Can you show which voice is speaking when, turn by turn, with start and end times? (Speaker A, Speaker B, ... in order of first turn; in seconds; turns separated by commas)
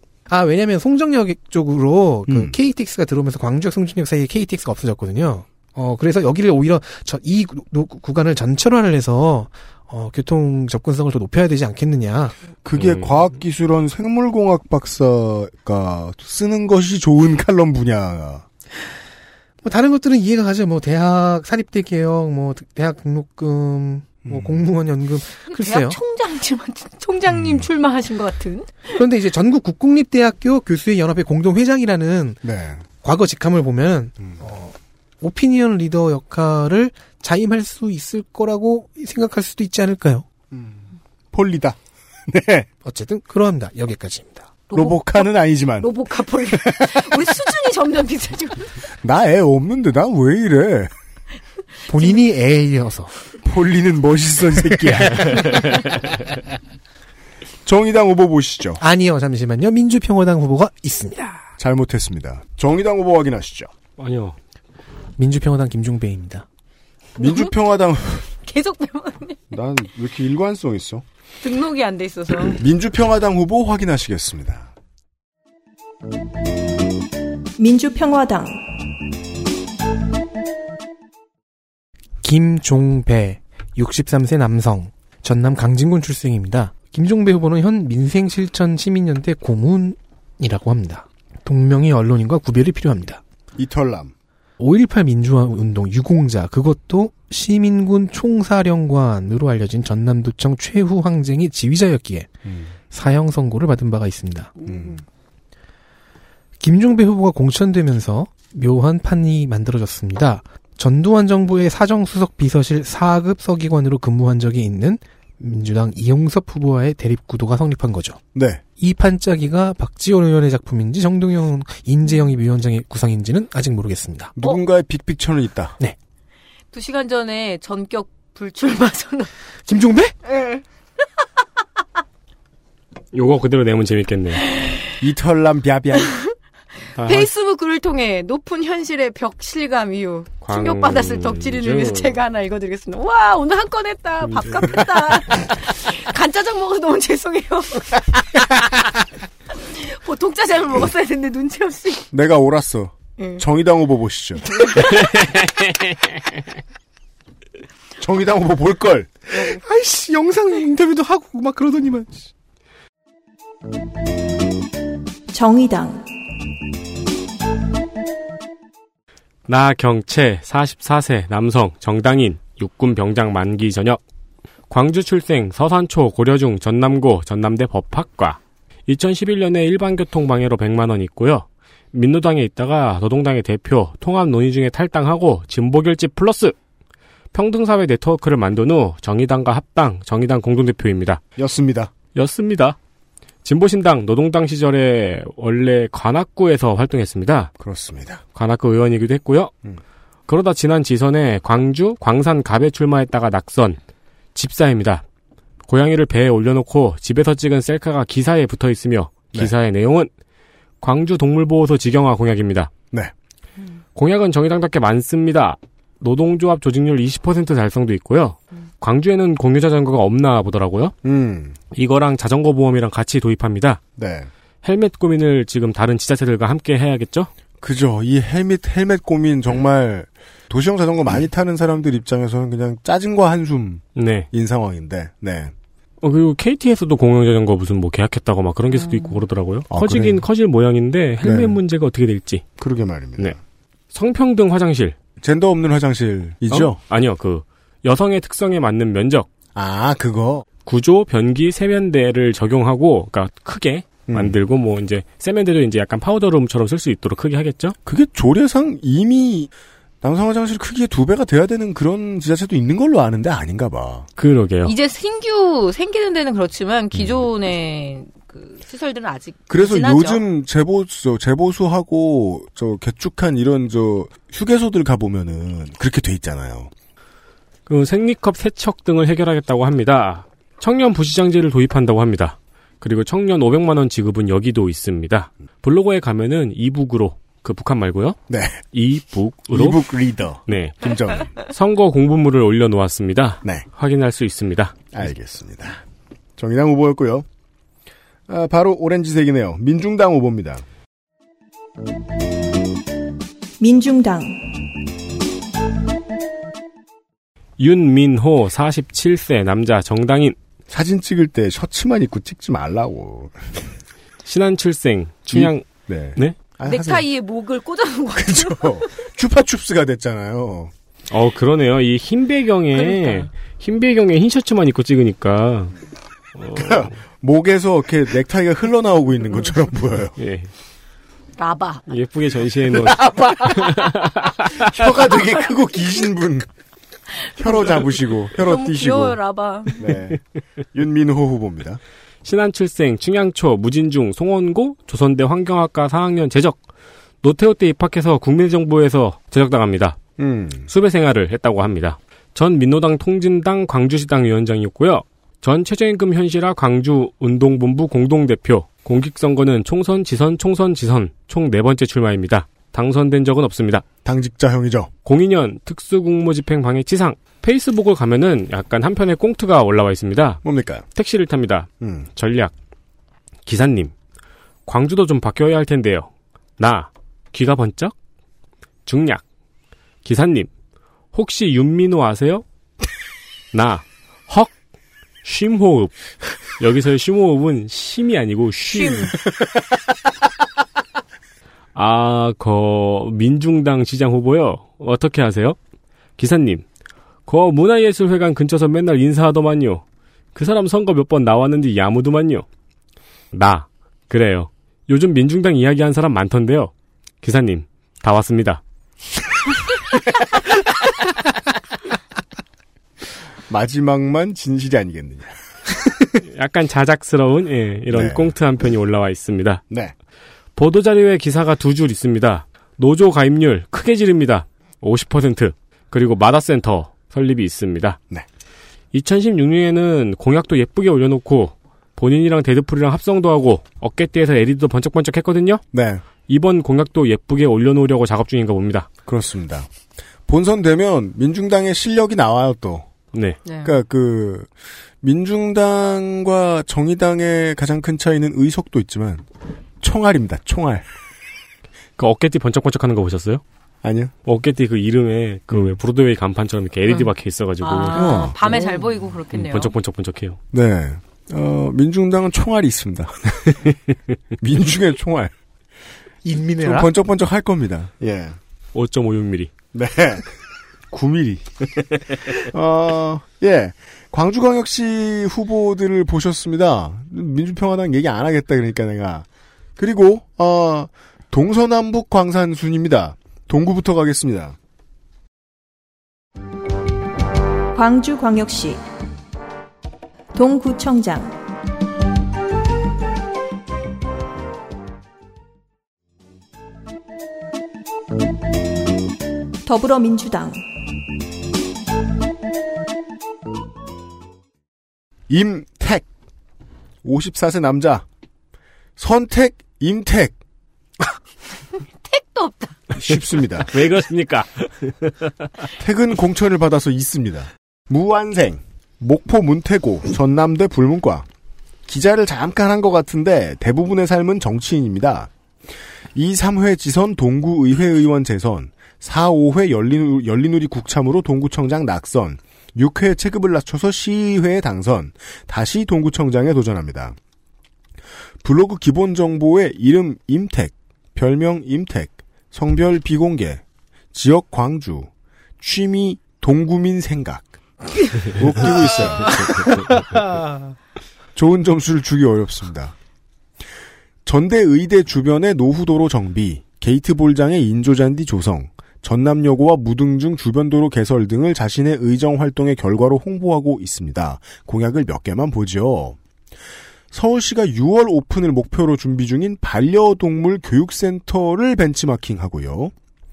Speaker A: 0.3-12.3, Speaker B: 2.3-2.5, Speaker B: 12.6-18.4, Speaker C: 12.8-13.2, Speaker A: 19.6-26.0, Speaker B: 24.2-24.6, Speaker D: 25.5-28.7, Speaker A: 28.9-32.4, Speaker B: 32.4-32.8, Speaker A: 33.0-40.2, Speaker B: 40.5-42.7, Speaker A: 42.8-44.5, Speaker D: 44.7-45.3, Speaker B: 44.7-45.9, Speaker D: 45.8-48.7, Speaker B: 46.4-47.2, Speaker B: 49.0-50.9, Speaker A: 51.9-53.1, Speaker B: 53.4-55.5, Speaker B: 57.6-58.8, Speaker A: 58.8-61.4, Speaker B: 61.6-63.7, Speaker C: 64.0-64.3, Speaker A: 65.2-66.5, Speaker B: 67.2-68.2, Speaker D: 67.2-67.5, Speaker D: 68.3-69.4, Speaker B: 69.5-71.0, Speaker D: 71.4-72.6, Speaker B: 72.5-74.7, Speaker E: 77.6-78.6, Speaker A: 82.2-93.2, Speaker B: 93.5-94.1, Speaker A: 94.6-102.3, Speaker B: 102.4-102.7, Speaker A: 102.9-104.5, Speaker B: 104.7-105.0, Speaker A: 106.6-118.2, Speaker B: 118.3-118.6, Speaker A: 118.8-124.3, Speaker B: 124.4-125.8, Speaker D: 126.7-129.3, Speaker A: 129.7-130.1, Speaker D: 130.2-130.6, Speaker C: 133.1-134.4, Speaker D: 134.5-134.9, Speaker B: 135.0-136.1, Speaker D: 136.0-136.3, Speaker C: 137.0-137.3, Speaker D: 137.0-148.0, Speaker C: 140.4-142.1, Speaker C: 144.2-144.8, Speaker D: 149.5-152.1, Speaker B: 152.1-154.6, Speaker D: 153.2-153.4, Speaker D: 154.5-155.2, Speaker B: 158.0-159.1, Speaker A: 159.3-162.3, Speaker E: 165.3-166.0, Speaker C: 169.5-174.0, Speaker C: 174.7-186.5, Speaker C: 187.3-191.2, Speaker B: 191.4-191.9, Speaker C: 192.1-192.8, Speaker C: 193.4-197.5, Speaker B: 197.6-198.2, Speaker C: 198.3-199.5, Speaker C: 200.3-203.8, Speaker C: 204.3-205.0, Speaker C: 205.7-210.1, Speaker C: 210.8-212.7, Speaker C: 213.9-220.9, Speaker B: 221.0-221.6, Speaker C: 221.7-223.8, Speaker B: 224.0-224.3, Speaker C: 224.6-227.3, Speaker B: 227.6-235.5, Speaker C: 233.9-234.3, Speaker C: 236.0-242.4, Speaker B: 239.7-240.2, Speaker B: 241.2-241.6, Speaker B: 242.6-243.4, Speaker C: 243.9-244.9, Speaker B: 245.2-246.8, Speaker C: 246.5-249.3, Speaker B: 249.5-250.4, Speaker C: 250.7-257.8, Speaker B: 254.1-254.4, Speaker B: 257.9-259.5, Speaker B: 260.0-264.1, Speaker C: 264.2-264.7, Speaker D: 264.6-270.2, Speaker B: 269.5-276.7, Speaker C: 277.7-288.2, Speaker B: 288.3-288.6, Speaker C: 288.7-289.8, Speaker B: 289.5-291.3, Speaker C: 290.4-294.8, Speaker B: 294.9-295.8, Speaker B: 296.4-297.2, Speaker B: 298.3-300.6, Speaker E: 303.6-304.4, Speaker C: 307.6-310.4, Speaker B: 310.7-313.7, Speaker C: 314.2-315.6, Speaker B: 315.3-317.1, Speaker D: 316.6-318.8, Speaker B: 318.1-320.7, Speaker C: 321.1-325.7, Speaker D: 322.8-323.3, Speaker C: 326.4-326.9, Speaker B: 326.5-330.1, Speaker C: 330.2-330.5, Speaker D: 331.4-331.9, Speaker C: 331.9-334.7, Speaker B: 332.8-333.7, Speaker B: 334.7-336.5, Speaker D: 337.4-337.8, Speaker B: 337.4-339.2, Speaker D: 338.3-339.9, Speaker B: 339.8-340.2, Speaker B: 340.7-341.8, Speaker C: 342.2-346.6, Speaker C: 347.2-350.0, Speaker B: 350.2-350.7, Speaker C: 350.7-363.8, Speaker B: 364.0-364.9, Speaker C: 365.0-370.4, Speaker B: 370.4-370.8, Speaker C: 370.9-372.5, Speaker B: 371.8-372.1, Speaker C: 373.4-373.9, Speaker C: 374.6-377.9, Speaker C: 378.9-379.2, Speaker C: 380.0-380.5, Speaker C: 381.1-382.4, Speaker C: 383.5-384.5, Speaker C: 385.2-385.9, Speaker C: 386.5-389.2, Speaker D: 388.7-389.1, Speaker C: 391.7-395.6, Speaker C: 396.2-396.6, Speaker C: 397.2-399.8, Speaker C: 400.3-402.4, Speaker C: 403.3-408.6, Speaker B: 413.5-415.3, Speaker C: 416.2-419.6, Speaker B: 417.9-418.3, Speaker C: 420.6-428.0, Speaker C: 428.9-435.6, Speaker B: 435.7-436.0, Speaker C: 436.3-438.9, Speaker B: 439.1-439.7, Speaker B: 440.3-442.9, Speaker C: 443.1-443.4, Speaker D: 443.4-443.7, Speaker B: 443.6-449.2, Speaker B: 449.8-450.9, Speaker C: 452.0-453.4, Speaker B: 453.8-454.1, Speaker C: 454.2-458.3, Speaker B: 455.5-455.8, Speaker D: 457.6-459.7, Speaker B: 457.9-458.4, Speaker C: 459.3-460.4, Speaker B: 460.5-463.7, Speaker B: 464.4-465.3, Speaker A: 466.2-466.9, Speaker B: 466.6-468.4, Speaker C: 468.7-469.5, Speaker B: 469.7-470.3, Speaker B: 470.9-484.6, Speaker E: 487.7-488.8, Speaker E: 490.3-491.3, Speaker E: 499.6-500.6, Speaker B: 505.3-506.1, Speaker B: 507.0-508.1, Speaker B: 509.0-510.4, Speaker D: 512.0-512.8, Speaker B: 513.0-513.7, Speaker C: 513.7-515.5, Speaker B: 515.8-521.3, Speaker B: 521.9-525.3, Speaker B: 526.1-537.2, Speaker B: 538.4-547.5, Speaker B: 548.2-550.0, Speaker B: 551.3-552.9, Speaker B: 554.2-566.2, Speaker B: 567.1-572.9